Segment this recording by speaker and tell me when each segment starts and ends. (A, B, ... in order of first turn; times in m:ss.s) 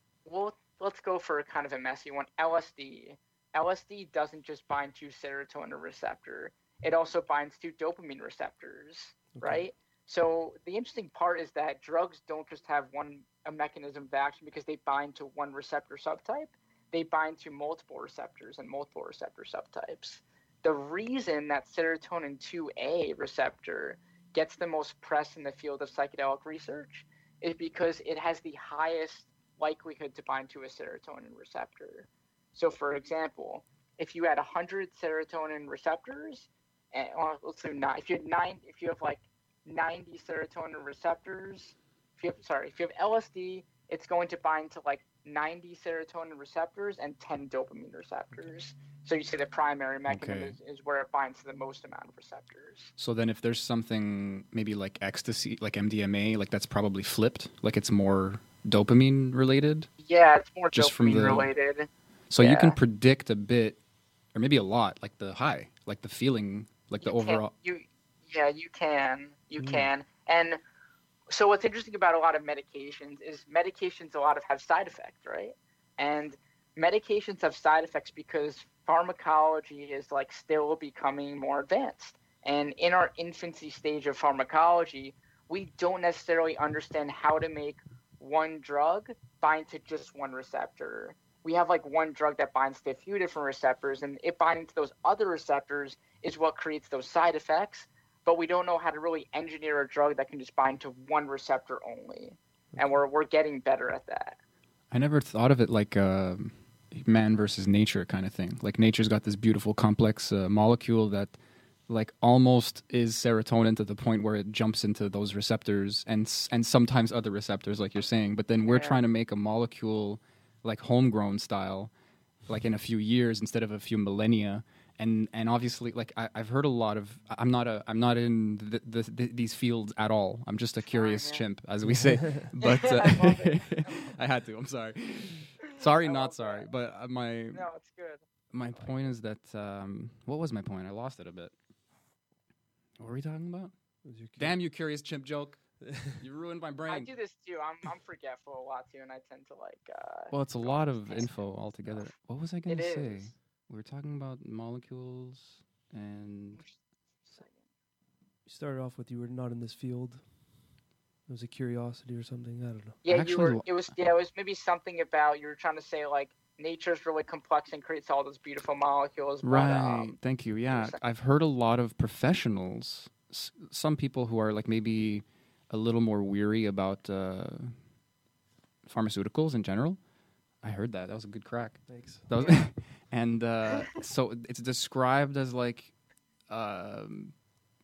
0:00.2-0:52.9 A
0:09.4-0:09.6 B
0:50.1-0:50.6 C
0:53.0-0:59.9 C
1:00.0-1:02.8 A
1:00.7-1:01.5 C
1:02.3-1:03.8 C
1:04.3-1:07.5 C
1:07.0-1:10.6 A
1:09.6-1:09.9 B
1:11.3-1:44.4 A
1:44.9-1:51.3 C
1:51.9-2:01.9 C
1:58.7-1:59.0 A
2:02.5-2:17.6 C
2:10.8-2:11.4 A
2:11.9-2:12.4 B
2:12.6-2:13.9 A
2:15.6-2:16.6 A
2:17.5-2:18.2 A
2:18.5-2:21.5 C
2:23.0-2:23.7 C
2:24.0-2:24.6 B
2:24.4-2:27.1 C
2:26.9-2:31.4 A
2:30.3-2:36.6 C
2:32.7-2:33.3 A
2:37.3-2:37.6 A
2:38.5-2:40.2 B
2:41.3-2:43.0 B
2:43.0-2:50.1 A
2:43.1-2:43.6 C
2:49.4-2:57.7 C
2:50.7-2:51.0 A
2:58.8-3:00.0 C
3:00.6-3:05.9 C
3:01.9-3:02.3 B
3:02.4-3:02.6 A
3:06.5-3:07.3 C